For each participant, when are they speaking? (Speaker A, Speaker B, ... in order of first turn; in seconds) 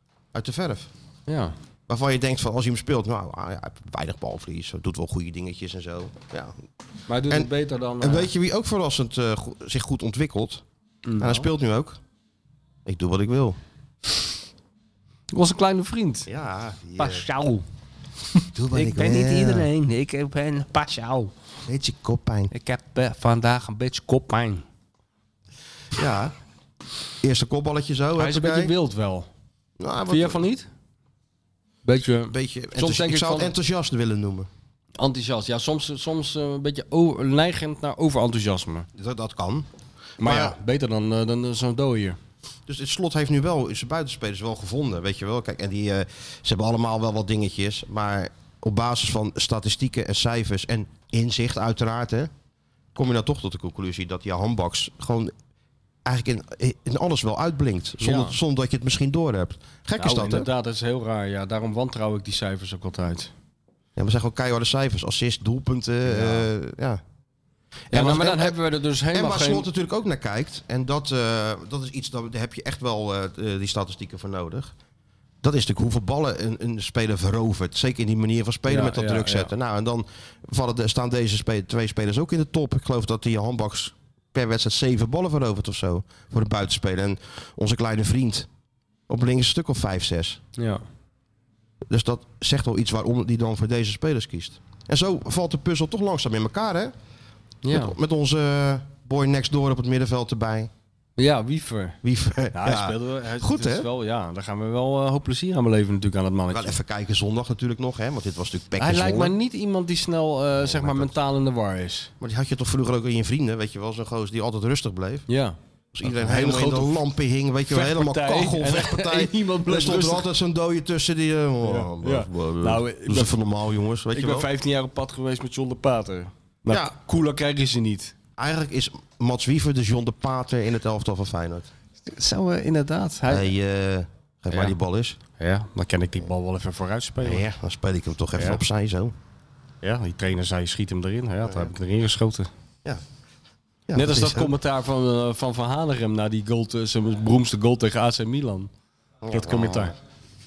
Speaker A: 0.3-0.9, 1.9-6.5, 7.3-10.6, 11.2-12.0, 12.8-13.6, 16.3-17.2, 18.5-19.7, 21.7-22.5, 25.9-26.3, 27.2-28.7, 29.8-30.4, 32.3-34.5, 38.9-39.7, 40.2-40.6, 42.7-52.3, 52.9-55.3, 56.0-60.5, 64.0-67.0, 67.9-68.5, 69.1-74.7, 75.4-88.5, 89.1-90.4, 91.9-96.9, 97.7-100.7, 102.0-103.9, 106.5-109.3, 110.6-111.1, 112.2-115.3, 115.9-124.5, 128.4-131.7, 133.3-135.2, 137.2-139.1, 141.4-141.7, 143.9-144.5, 149.2-149.9
Speaker B: 1.3-1.5, 7.1-8.3, 11.1-11.5, 15.3-16.3, 17.0-17.6, 18.7-21.3, 22.5-24.6, 28.2-29.3, 30.1-30.7, 31.8-33.5, 35.0-38.9, 40.2-42.2, 58.0-58.4, 60.0-63.3, 66.1-66.5, 67.9-69.7, 78.7-79.5, 90.6-90.8, 97.6-97.9, 101.2-102.0, 102.5-106.8, 108.8-112.1, 115.3-117.0, 117.7-120.3, 121.6-123.4, 124.1-128.1, 132.1-133.5, 135.4-137.4, 138.3-138.6, 139.8-142.5, 143.9-148.7, 149.3-149.9